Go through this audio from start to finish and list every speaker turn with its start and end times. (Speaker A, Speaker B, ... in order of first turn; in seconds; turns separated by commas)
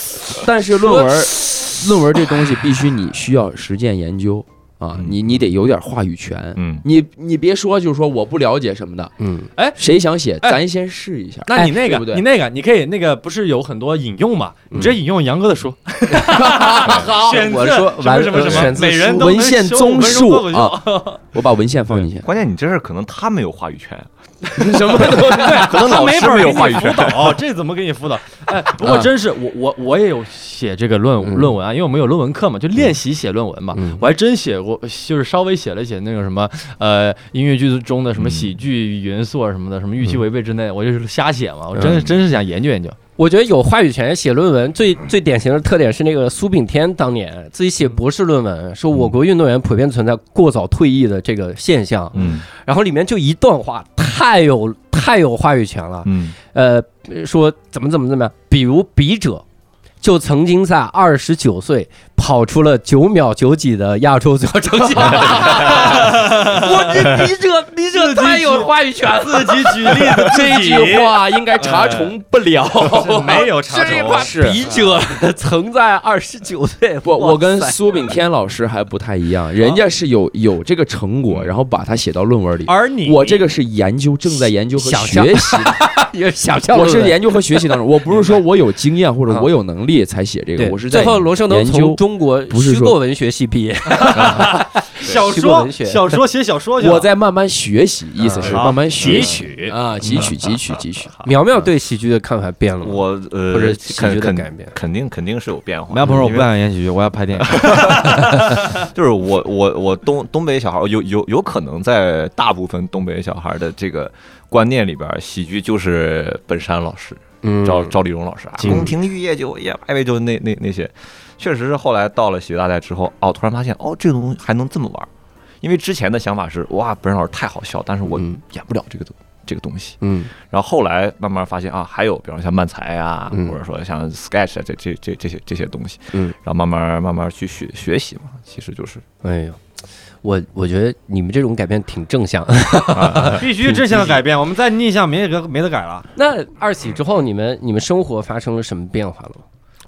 Speaker A: 0.3-9.1, Speaker B: 0.8-1.1, Speaker C: 4.9-5.4, Speaker C: 6.5-6.8, Speaker B: 9.2-9.5, Speaker A: 9.8-12.2, Speaker D: 11.5-21.2, Speaker A: 16.1-17.5, Speaker B: 16.4-19.4, Speaker A: 18.5-22.3, Speaker C: 22.2-24.1, Speaker A: 24.5-27.1, Speaker D: 24.5-43.0, Speaker C: 25.1-27.4, Speaker A: 28.8-29.1, Speaker B: 33.7-34.0, Speaker C: 38.2-38.5, Speaker C: 41.8-42.1, Speaker B: 43.2-59.4, Speaker C: 52.1-52.5, Speaker C: 56.0-56.4, Speaker B: 60.0-70.3, Speaker C: 65.2-65.4, Speaker D: 65.5-67.1, Speaker D: 67.9-72.1, Speaker A: 70.2-74.7, Speaker D: 72.8-74.6, Speaker B: 73.7-77.8, Speaker A: 77.0-85.9, Speaker D: 82.6-83.4, Speaker B: 84.7-87.6, Speaker A: 86.7-93.0, Speaker B: 90.5-96.2, Speaker D: 93.9-97.1, Speaker C: 94.2-94.5, Speaker A: 96.8-101.1, Speaker B: 98.2-98.5, Speaker D: 98.4-100.5, Speaker C: 98.4-99.4, Speaker B: 101.2-104.7, Speaker C: 102.8-106.5, Speaker D: 105.9-108.4, Speaker C: 107.5-125.1, Speaker B: 117.4-118.0, Speaker D: 118.6-118.9, Speaker B: 118.6-118.9, Speaker C: 125.6-139.0, Speaker B: 128.1-128.4, Speaker B: 130.0-130.3, Speaker B: 133.3-133.6, Speaker B: 139.2-139.6, Speaker B: 140.2-144.2, Speaker C: 142.9-143.4, Speaker D: 143.1-146.1, Speaker B: 146.1-149.4